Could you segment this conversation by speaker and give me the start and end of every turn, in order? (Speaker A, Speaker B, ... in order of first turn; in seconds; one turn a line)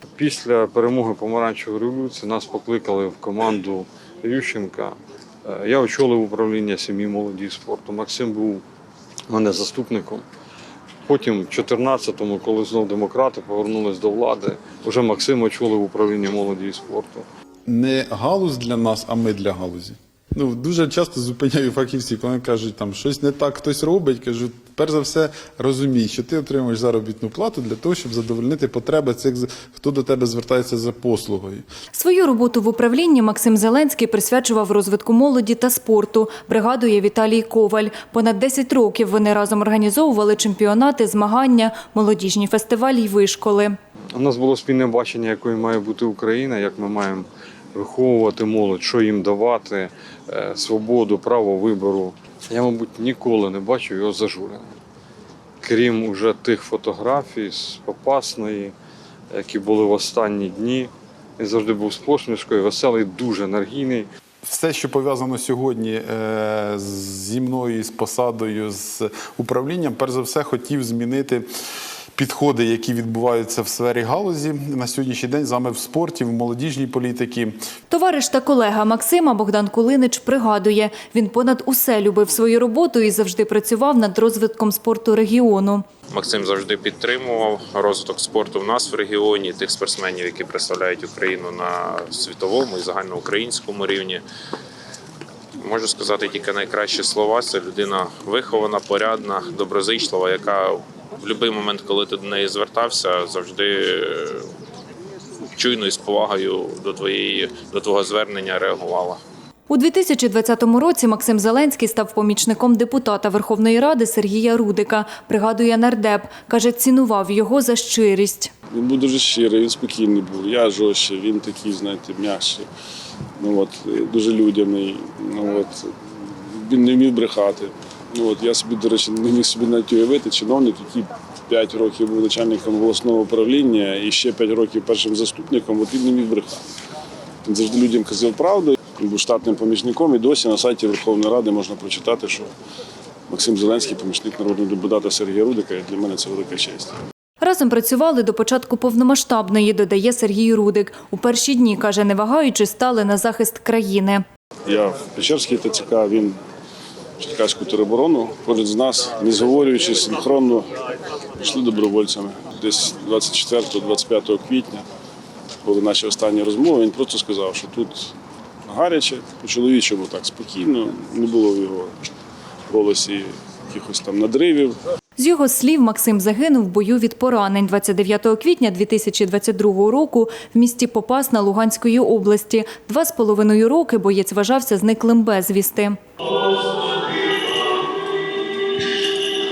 Speaker A: 0.1-8.6
Speaker A: 9.3-10.2
Speaker A: 11.0-17.2
Speaker B: 17.6-31.6
Speaker C: 31.9-43.8
Speaker A: 44.1-54.7
Speaker A: 55.6-58.7
Speaker A: 59.3-64.0
Speaker B: 64.4-71.5
Speaker B: 72.1-77.5
Speaker C: 77.9-85.8
Speaker D: 86.1-94.2
Speaker D: 95.6-104.5
Speaker D: 105.5-109.2
Speaker C: 109.7-118.5
Speaker E: 118.7-122.7
Speaker E: 123.4-136.6
Speaker E: 137.4-142.5
Speaker E: 143.3-146.9
Speaker C: 147.4-154.2
Speaker E: 154.6-156.4
Speaker E: 157.2-160.7
Speaker E: 161.4-164.8
Speaker E: 165.6-168.1
Speaker E: 168.7-172.1
Speaker E: 172.7-174.8
Speaker C: 175.2-186.0